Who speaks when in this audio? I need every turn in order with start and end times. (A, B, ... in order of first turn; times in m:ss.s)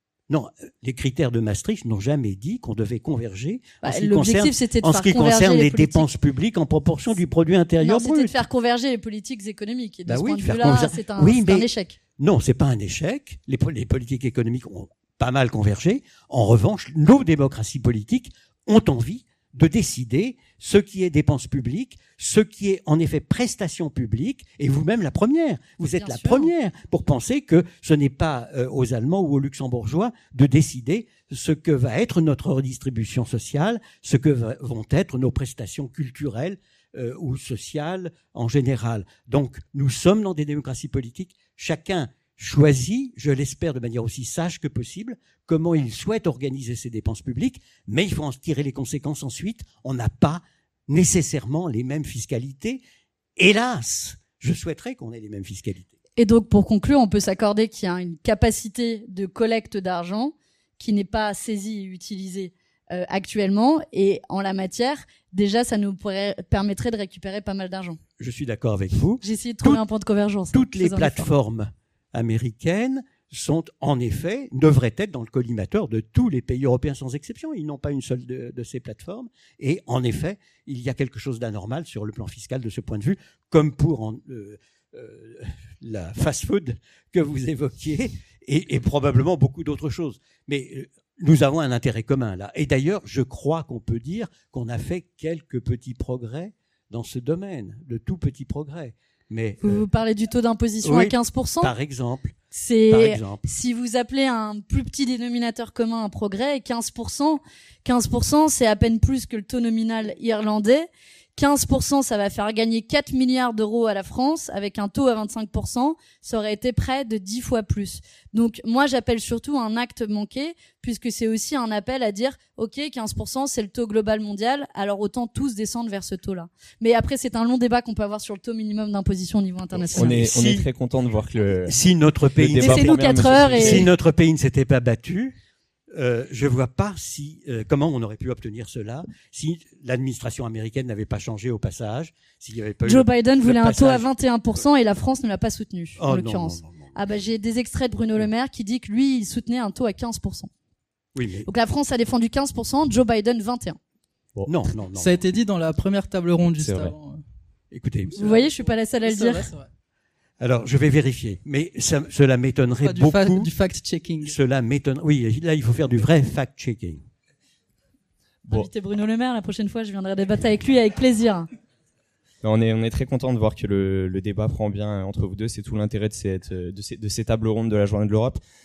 0:00.3-0:08.4 A
0:03.8-0:06.1 B
0:07.8-0:12.0 B
0:10.1-0:52.8 A
0:25.9-0:26.5 B
0:53.4-0:55.9 A
0:56.2-1:08.0 B
1:08.2-1:09.8 A
1:09.2-1:11.3 B
1:10.5-1:39.8 A
1:39.6-1:41.7 B
1:40.8-1:43.4 A
1:42.5-2:10.2 B
2:09.8-2:10.7 A
2:09.9-2:11.8 C
2:11.6-2:15.4 A
2:12.3-2:13.9 C
2:12.6-2:13.9 B
2:15.9-2:24.1 A
2:22.8-2:30.5 B
2:26.0-2:26.9 A
2:31.1-2:31.5 A
2:31.4-2:33.8 B
2:34.4-2:35.3 A
2:34.9-2:37.2 D
2:36.6-2:36.9 C
2:37.7-2:38.4 A
2:38.1-2:39.7 D
2:38.2-2:39.5 B
2:40.4-2:43.5 A
2:42.8-2:44.4 D
2:44.2-2:47.0 A
2:48.5-2:51.5 B
2:52.4-2:58.4 C